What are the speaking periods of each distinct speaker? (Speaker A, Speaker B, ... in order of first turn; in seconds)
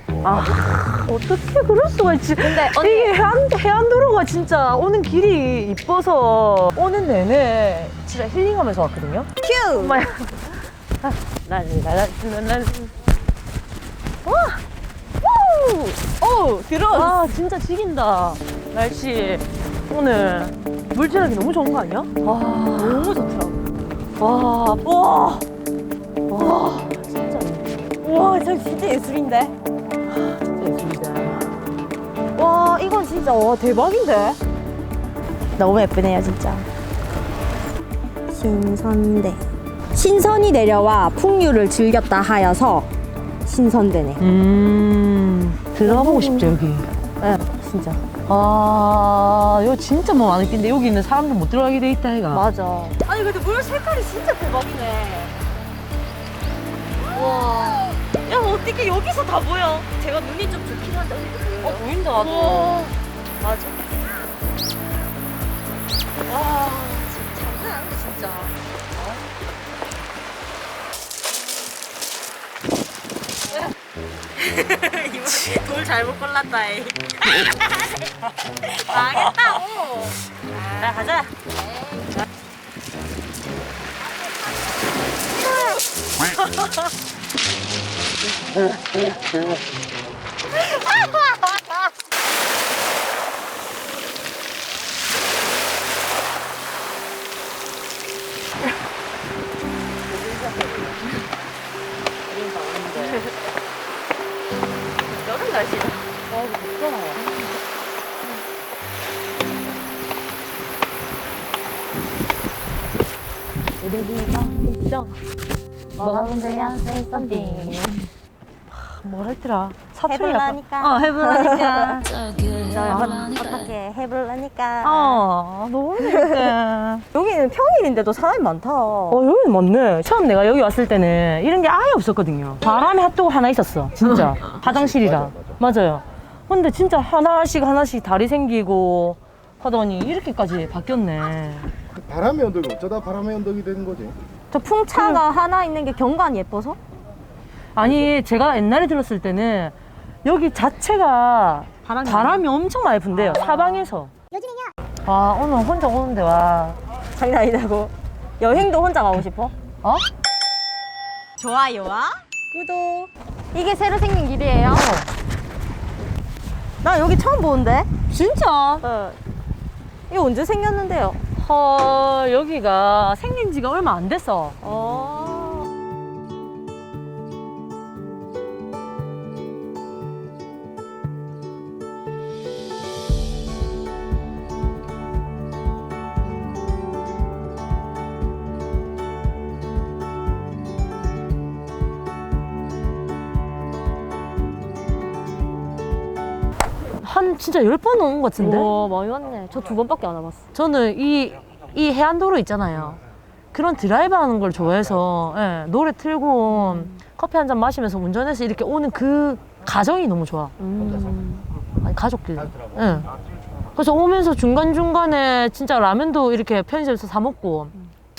Speaker A: 0.2-10.5, 11.0-12.9, 14.2-14.6, 16.9-23.2, 24.2-25.4, 26.3-27.9, 30.2-31.5, 44.2-46.9, 48.3-52.4, 57.3-57.8, 61.6-62.9, 80.8-81.3, 100.1-101.0, 102.3-103.2, 106.2-107.5, 113.8-115.1, 116.0-118.0, 118.9-122.3, 122.8-123.3, 124.8-127.0, 129.1-141.7, 144.9-145.2, 147.7-154.1, 155.0-156.8, 164.7-165.1, 168.1-168.8, 171.3-174.6, 197.0-198.7, 200.5-203.0, 203.5-210.5, 211.8-213.1, 213.7-217.7
Speaker B: 2.4-3.1, 9.4-10.0, 15.2-17.3, 22.7-23.7, 28.0-29.5, 32.3-34.4, 35.5-36.7, 38.3-42.9, 43.4-44.2, 45.8-46.5, 47.2-48.0, 52.3-55.3, 57.1-62.9, 63.4-63.9, 66.3-68.5, 74.4-78.0, 78.6-81.1, 105.1-106.1, 114.3-115.0, 116.0-118.0, 120.1-125.2, 125.9-126.5, 127.1-129.2, 144.5-146.8, 151.8-152.4, 153.1-154.7, 157.1-159.5, 161.4-164.9, 166.8-168.1, 168.7-169.2, 170.1-171.2, 174.6-175.7, 198.4-200.4, 206.5-206.9, 210.6-211.4
Speaker C: 134.7-135.5, 141.9-144.2